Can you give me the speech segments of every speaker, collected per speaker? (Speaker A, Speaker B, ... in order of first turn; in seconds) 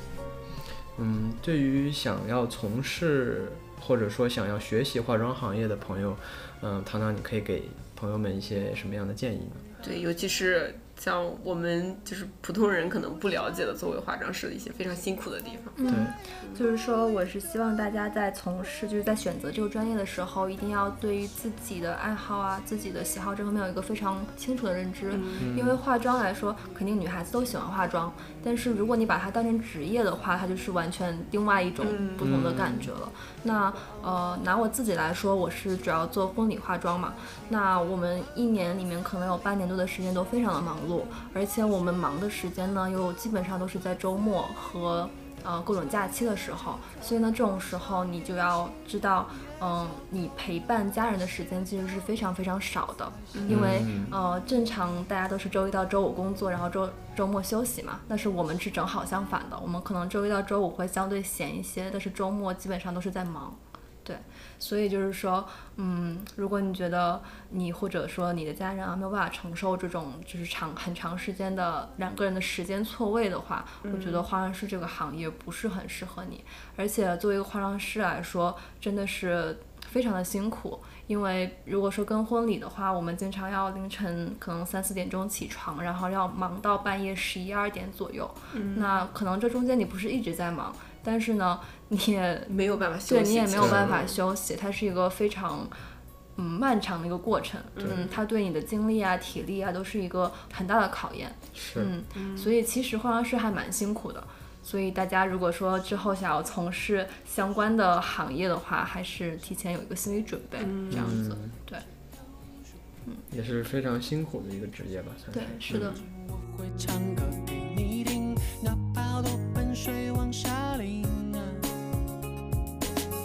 Speaker A: 0.9-9.6, 15.9-16.1, 25.4-25.8, 32.2-32.9, 53.5-54.2, 93.5-94.0, 101.5-101.9, 110.9-111.5, 113.3-116.0
Speaker B: 9.8-15.8, 25.1-25.5, 31.8-32.3, 53.3-53.7, 73.8-74.3, 88.5-89.0, 92.5-94.2, 97.8-98.1, 102.1-102.5, 110.6-111.2
Speaker C: 15.8-92.5, 93.0-95.7, 96.3-111.8, 115.3-116.0
Speaker D: 116.1-121.7